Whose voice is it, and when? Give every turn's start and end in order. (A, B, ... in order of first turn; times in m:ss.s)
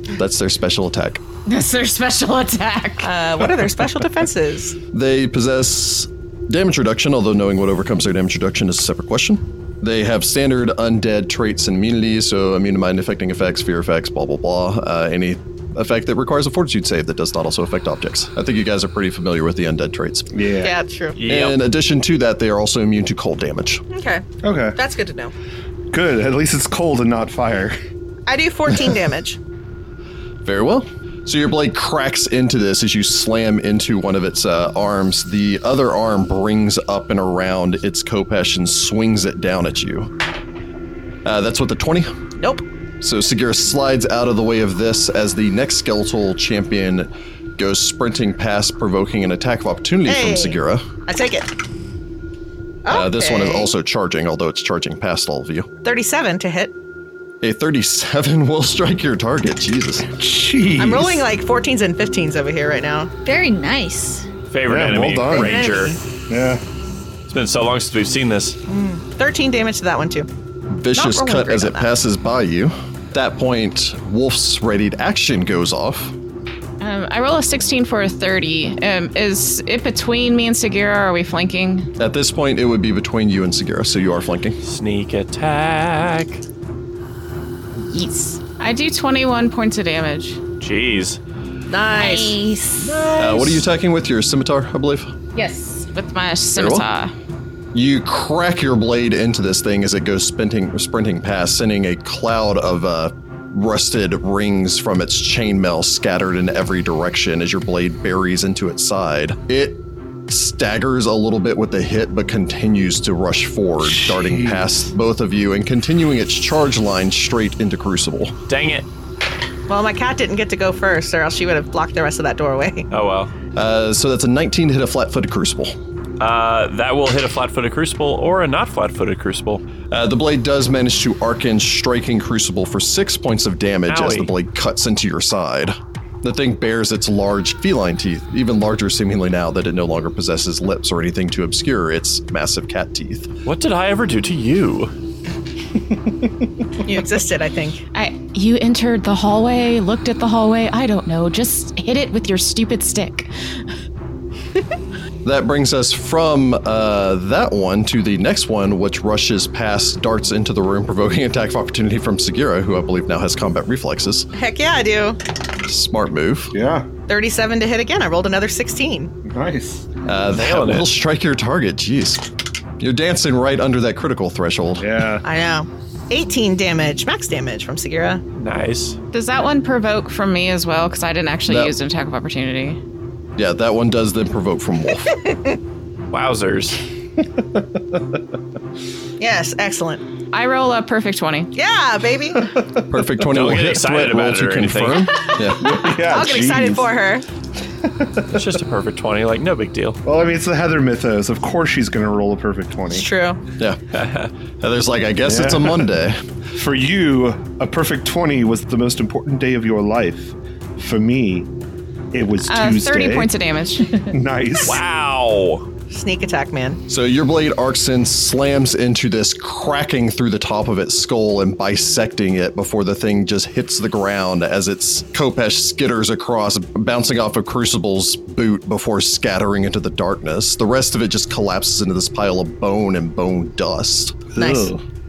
0:00.1-0:01.2 A
0:01.4-0:03.1 B
0:03.0-0:04.8 C
0:04.9-0:20.3 A
0:20.3-0:20.7 D
0:20.6-0:21.2 C
0:21.1-0:21.6 E
0:21.2-0:23.8 A
0:23.9-0:25.3 C
0:24.4-0:24.8 D
0:25.9-0:27.8 D
0:28.3-0:29.4 C
0:30.4-0:40.1 A
0:41.2-0:42.1 A
0:42.4-0:42.6 C
0:43.0-0:50.9 A
0:50.1-0:51.5 C
0:52.8-0:53.7 C
0:52.9-0:55.7 A
0:55.8-0:56.7 C
0:57.4-1:00.1 A
1:00.1-1:01.2 D
1:00.8-1:03.1 C
1:03.2-1:04.2 F
1:04.5-1:06.0 E
1:04.6-1:05.6 D
1:05.3-1:06.0 C
1:06.3-1:06.6 D
1:07.3-1:08.6 E
1:08.7-1:10.3 C
1:10.7-1:16.1 A
1:10.9-1:11.9 C
1:16.8-1:21.9 B
1:22.0-1:24.6 A
1:24.6-1:26.4 E
1:27.9-1:30.4 B
1:30.6-1:31.2 E
1:31.7-1:32.4 C
1:31.9-1:33.0 F
1:32.8-1:33.6 E
1:33.2-1:35.1 A
1:35.3-1:37.1 B
1:36.6-1:36.8 A
1:37.7-1:58.4 A
1:53.9-1:54.6 D
1:58.5-1:58.8 E
1:59.7-2:02.9 C
2:02.9-2:03.3 E
2:03.5-2:05.7 A
2:06.2-2:09.6 E
2:09.9-2:23.3 A
2:13.9-2:14.3 E
2:23.4-2:24.9 E
2:26.8-2:27.8 C
2:27.9-2:33.3 B
2:35.2-2:44.3 A
2:44.3-2:45.2 C
2:45.6-2:46.5 A
2:46.5-2:46.9 D
2:47.1-2:49.1 C
2:49.2-2:49.9 D
2:50.0-2:52.2 A
2:50.3-2:50.9 E
2:52.8-2:55.0 A
2:54.8-2:55.2 D
2:55.2-2:58.2 C
2:58.4-2:59.0 E
2:59.1-3:02.8 B
3:01.5-3:01.7 A
3:03.4-3:05.2 A
3:05.2-3:05.6 C
3:06.1-3:06.8 E
3:07.4-3:08.0 D
3:09.2-3:10.0 C
3:10.3-3:11.5 B
3:11.5-3:12.5 C
3:12.5-3:12.8 D
3:12.8-3:15.8 A
3:13.2-3:15.1 E
3:15.6-3:16.9 D
3:15.9-3:17.2 C
3:17.8-3:18.3 D
3:18.3-3:20.0 E
3:20.0-3:23.1 D
3:22.9-3:23.4 C
3:23.9-3:24.3 E
3:24.6-3:26.2 A
3:25.2-3:25.9 D
3:26.5-3:31.5 D
3:32.1-3:33.3 D
3:32.4-3:34.0 B
3:34.0-3:34.8 D
3:34.6-3:35.6 E
3:35.9-3:36.8 C
3:36.9-3:54.3 A
3:54.3-3:54.8 D
3:54.4-3:54.7 C